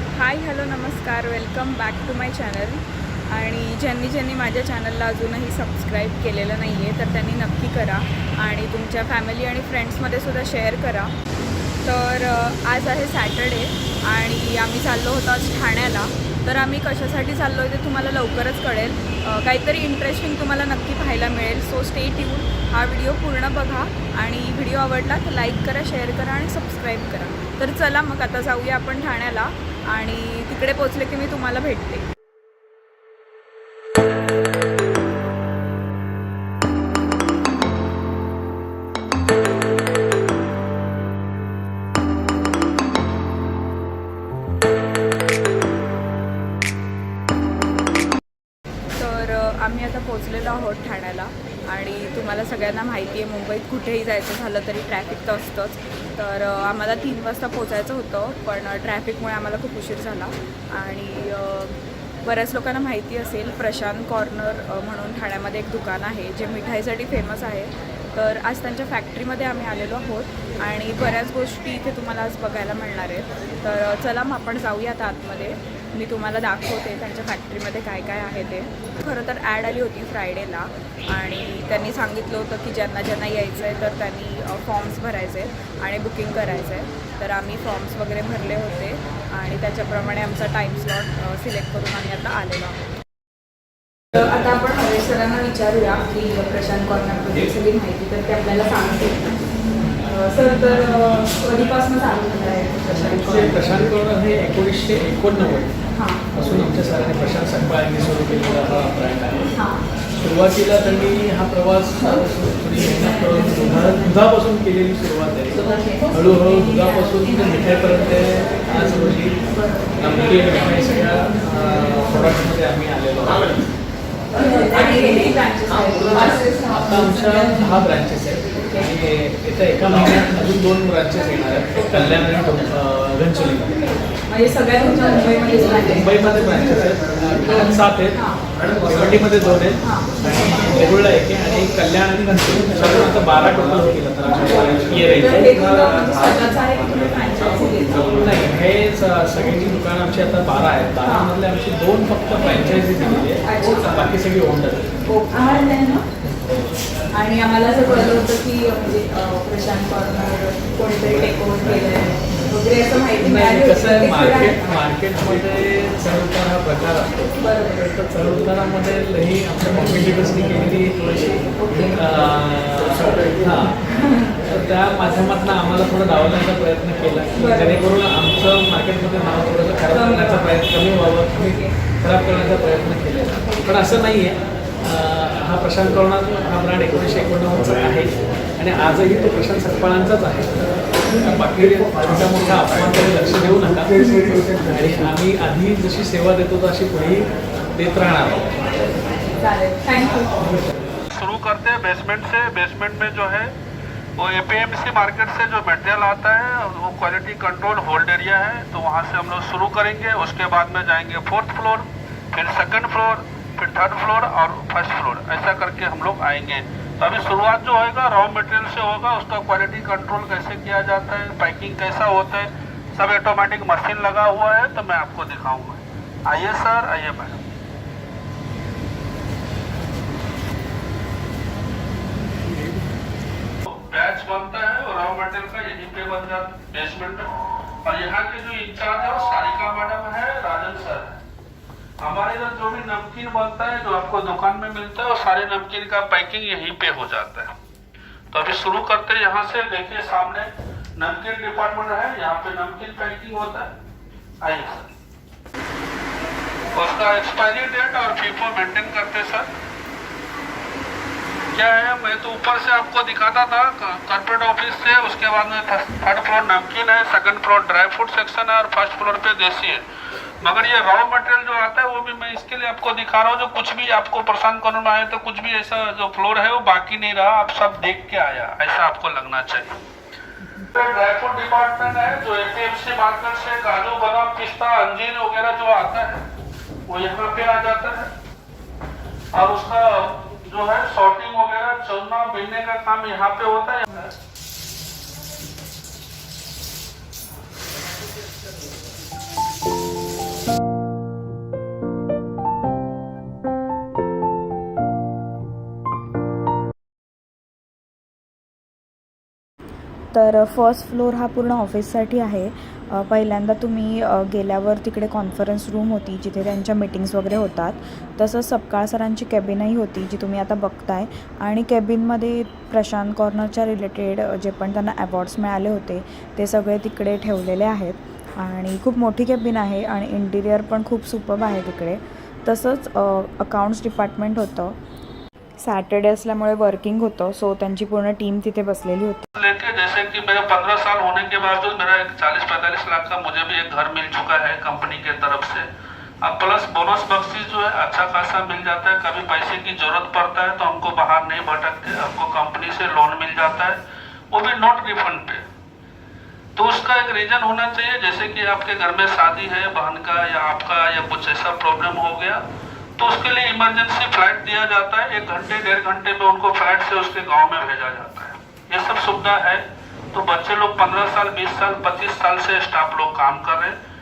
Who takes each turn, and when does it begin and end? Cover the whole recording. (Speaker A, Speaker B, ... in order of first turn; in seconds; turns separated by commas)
Speaker A: 0.1-11.1, Speaker A: 11.8-32.1, Speaker A: 48.9-92.8, Speaker A: 94.1-99.3, Speaker A: 100.0-103.5, Speaker B: 102.9-105.8, Speaker A: 105.9-106.3, Speaker B: 106.3-109.5, Speaker A: 109.5-109.9, Speaker B: 110.2-119.4, Speaker A: 112.0-112.2, Speaker A: 113.1-114.0, Speaker A: 115.6-118.0, Speaker A: 119.5-120.7, Speaker B: 120.0-123.7, Speaker A: 124.3-127.4, Speaker B: 126.1-133.8, Speaker A: 134.3-136.2, Speaker B: 135.9-145.9, Speaker A: 138.1-138.5, Speaker A: 139.8-140.3, Speaker A: 144.5-148.2, Speaker B: 148.0-154.9, Speaker A: 151.0-151.3, Speaker A: 152.4-153.9, Speaker A: 155.0-156.1, Speaker A: 157.1-164.8, Speaker B: 163.2-167.4, Speaker A: 167.4-168.0, Speaker B: 167.9-173.8, Speaker A: 171.6-171.9, Speaker A: 173.8-174.4, Speaker B: 174.5-198.5, Speaker A: 177.4-177.8, Speaker A: 179.9-180.8, Speaker A: 181.4-181.8, Speaker A: 193.9-194.3, Speaker A: 199.3-200.5, Speaker C: 201.1-203.5, Speaker C: 204.2-227.4, Speaker C: 233.6-237.3, Speaker C: 237.8-241.2, Speaker C: 242.0-247.5, Speaker C: 248.3-253.7, Speaker C: 254.4-254.9, Speaker C: 256.7-259.5, Speaker C: 261.5-269.9, Speaker C: 270.4-279.8, Speaker C: 280.6-286.2, Speaker C: 286.9-288.1, Speaker C: 289.3-294.1, Speaker D: 310.1-334.8, Speaker D: 335.6-339.2, Speaker C: 339.4-345.7, Speaker C: 346.2-353.8, Speaker C: 354.3-355.4, Speaker C: 356.6-362.4, Speaker C: 363.0-373.8